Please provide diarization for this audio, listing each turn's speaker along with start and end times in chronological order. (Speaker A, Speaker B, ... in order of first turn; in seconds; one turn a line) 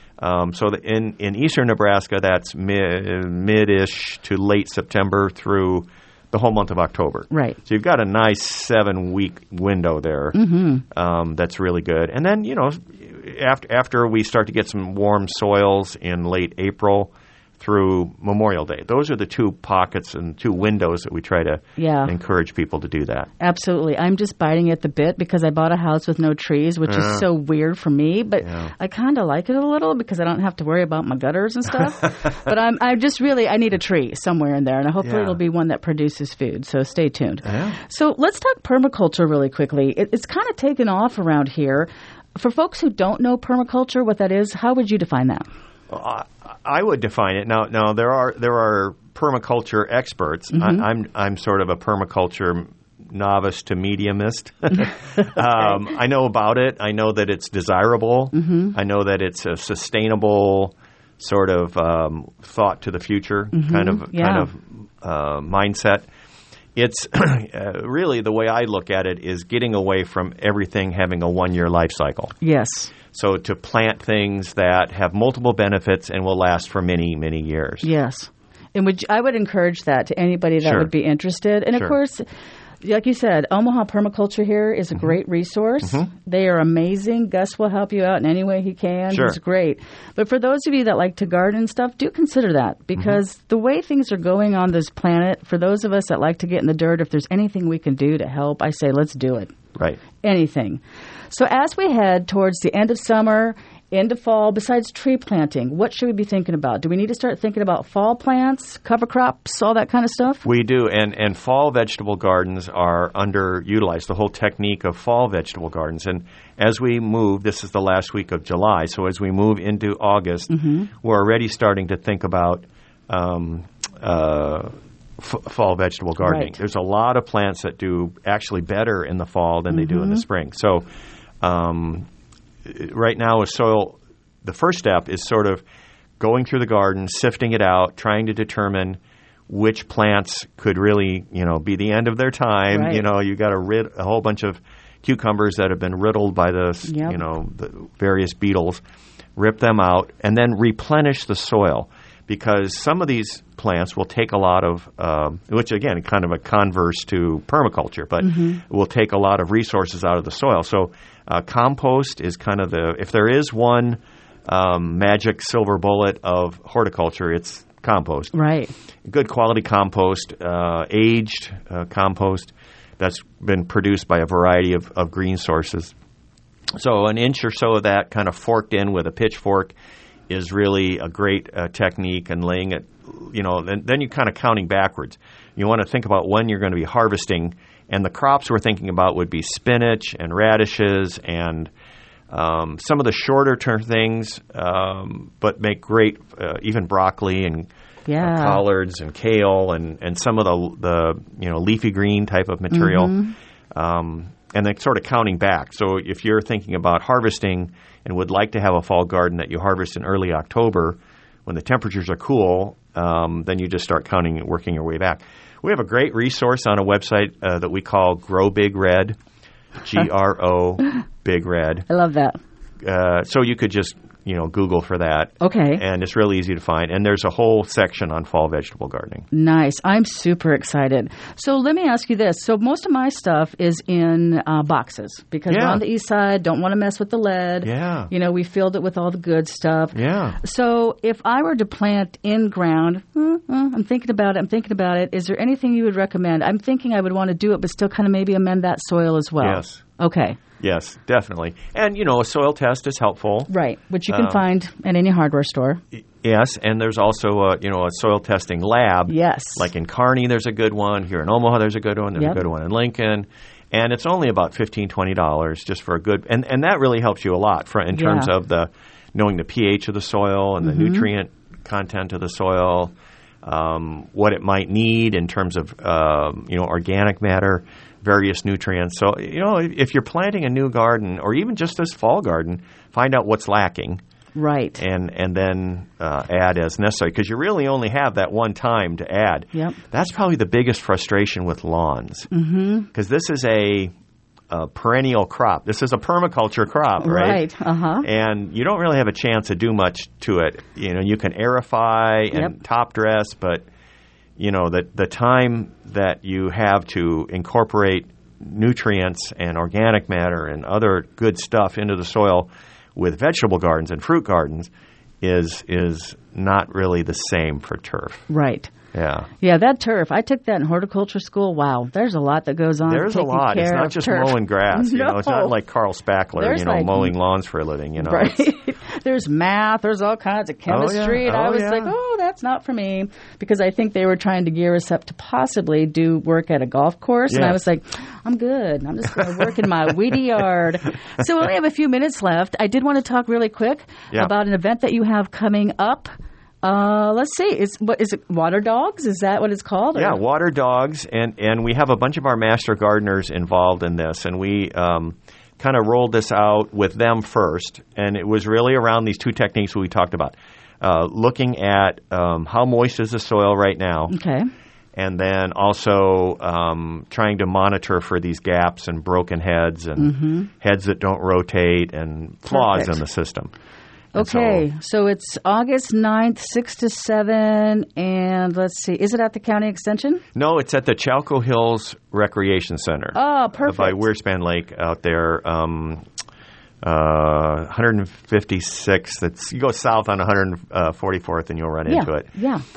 Speaker A: 0.2-10.4
Speaker B: 7.3-7.6
Speaker B: 10.3-10.8
Speaker A: 10.9-23.3
Speaker B: 21.8-22.1
Speaker B: 23.4-45.5
Speaker A: 26.9-27.2
Speaker A: 28.4-28.7
Speaker A: 35.0-35.4
Speaker A: 37.4-37.8
Speaker A: 45.9-66.0
Speaker B: 50.5-50.8
Speaker B: 58.3-58.7
Speaker B: 63.5-64.5
Speaker A: 66.7-72.3
Speaker B: 72.4-72.9
Speaker A: 73.1-77.9
Speaker B: 77.8-82.2
Speaker A: 80.6-80.9
Speaker B: 82.8-99.5
Speaker A: 85.8-86.1
Speaker A: 89.1-89.4
Speaker B: 100.2-110.4
Speaker A: 110.4-130.9
Speaker B: 120.5-120.9
Speaker B: 126.2-126.6
Speaker B: 129.7-130.2
Speaker A: 131.4-132.1
Speaker A: 132.6-135.6
Speaker A: 136.2-148.8
Speaker B: 142.7-143.0
Speaker B: 146.9-147.2
Speaker A: 149.3-168.3
Speaker B: 158.2-158.6
Speaker B: 168.3-168.7
Speaker A: 169.1-175.9
Speaker A: 176.8-179.7
Speaker A: 180.3-191.7
Speaker A: 192.3-197.7
Speaker B: 198.1-198.6
Speaker A: 198.2-203.2
Speaker B: 202.7-203.3
Speaker A: 203.7-219.2
Speaker A: 219.8-221.9
Speaker B: 221.9-222.4
Speaker A: 222.8-229.3
Speaker B: 225.4-225.8
Speaker B: 229.3-250.4
Speaker A: 235.5-235.8
Speaker A: 237.6-238.1
Speaker A: 239.9-240.4
Speaker A: 249.4-249.8
Speaker A: 250.6-253.5
Speaker B: 253.5-255.8
Speaker A: 254.1-254.4
Speaker A: 256.2-284.0
Speaker B: 259.1-259.7
Speaker B: 267.9-268.3
Speaker B: 270.6-271.1
Speaker B: 284.3-284.8
Speaker A: 284.8-292.3
Speaker B: 292.3-292.9
Speaker A: 292.9-293.9
Speaker A: 294.5-297.4
Speaker B: 297.0-298.1
Speaker A: 298.0-303.6
Speaker A: 304.4-314.7
Speaker A: 315.2-318.3
Speaker B: 318.3-318.7
Speaker A: 318.9-319.3
Speaker B: 319.4-325.5
Speaker A: 322.9-328.4
Speaker B: 326.4-327.1
Speaker B: 328.0-346.1
Speaker A: 330.7-331.9
Speaker A: 337.3-337.6
Speaker B: 346.6-350.2
Speaker A: 349.9-364.1
Speaker B: 364.1-364.5
Speaker A: 364.9-373.5
Speaker B: 370.0-370.5
Speaker B: 372.5-373.0
Speaker A: 374.1-374.6
Speaker B: 374.1-380.2
Speaker A: 380.3-386.1
Speaker B: 383.1-384.0
Speaker A: 386.8-392.3
Speaker B: 391.9-392.6